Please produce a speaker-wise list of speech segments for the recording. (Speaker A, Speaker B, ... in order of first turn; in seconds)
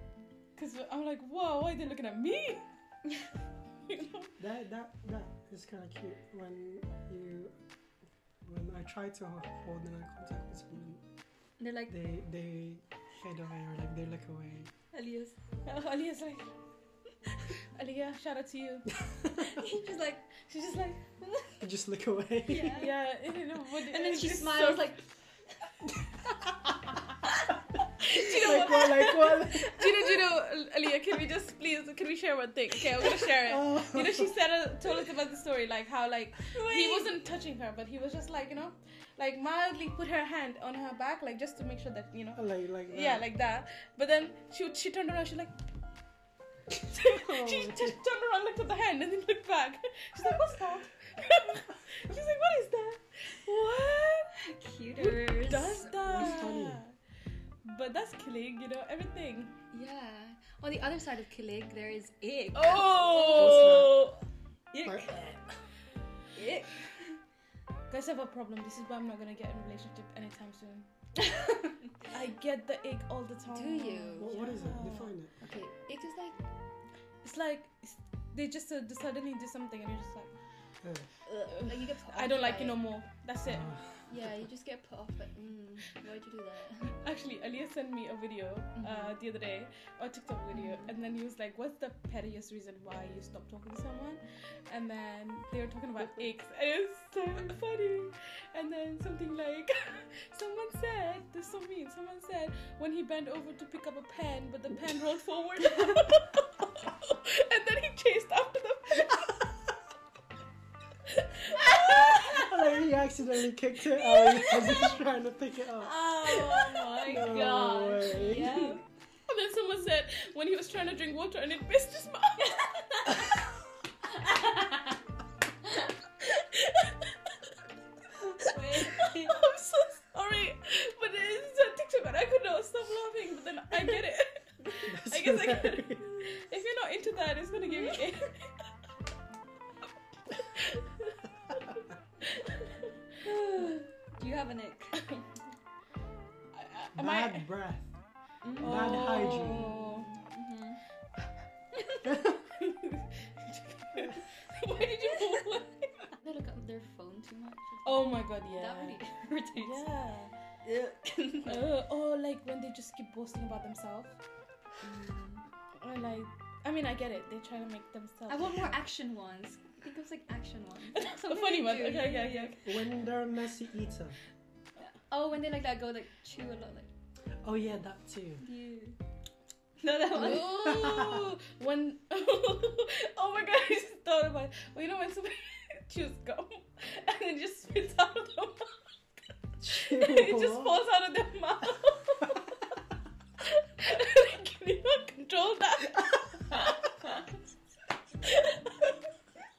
Speaker A: 0.6-2.7, 3.9-4.3, 15.7-16.5, 17.5-19.0, 20.4-21.1, 22.7-25.0, 28.0-45.6, 46.9-54.4, 55.0-56.9, 57.6-59.6, 62.5-64.2, 67.9-70.9, 72.1-75.1, 77.2-80.3, 81.5-83.7, 86.9-109.5, 111.1-112.6, 113.9-115.0, 115.8-117.3, 119.3-123.4, 126.2-127.5, 128.4-138.7, 140.3-141.6, 142.2-142.9, 146.5-147.5, 148.6-150.1, 151.8-155.9, 157.8-159.0, 159.6-160.3, 161.5-164.2, 165.8-168.6, 171.0-172.8, 180.1-188.8, 189.7-192.8, 193.4-197.2, 198.3-198.8
Speaker B: 4.4-7.6, 8.4-11.0, 11.9-14.7, 19.1-19.4, 21.6-22.8, 26.5-26.9, 28.1-30.2, 33.4-34.4, 42.4-43.3, 46.9-48.0, 56.0-56.8, 63.3-64.0, 64.8-65.1, 74.2-75.3, 83.4-84.0, 111.9-116.0, 117.0-118.7, 134.8-136.1, 146.9-147.9, 148.6-149.7, 152.1-152.4, 172.7-174.2, 177.4-178.4, 180.5-181.3, 189.6-190.8
Speaker C: 11.6-11.9, 14.9-15.4, 19.4-20.3, 21.2-21.6, 22.5-23.0, 23.7-25.1, 28.1-28.7, 36.5-37.1, 54.4-56.4, 59.7-64.0, 64.7-65.4, 66.3-67.2, 71.2-71.8, 73.5-74.4, 75.4-76.4, 81.3-82.8, 84.1-87.0, 88.8-89.2, 90.5-90.9, 111.7-112.3, 115.8-118.8, 122.4-123.4, 124.0-125.0, 128.3-129.4, 137.6-138.1, 143.2-145.3, 148.4-150.8, 154.8-155.5, 156.1-159.9, 160.6-161.7, 164.8-165.4, 168.3-172.6, 174.8-176.9, 178.4-179.0, 179.8-180.7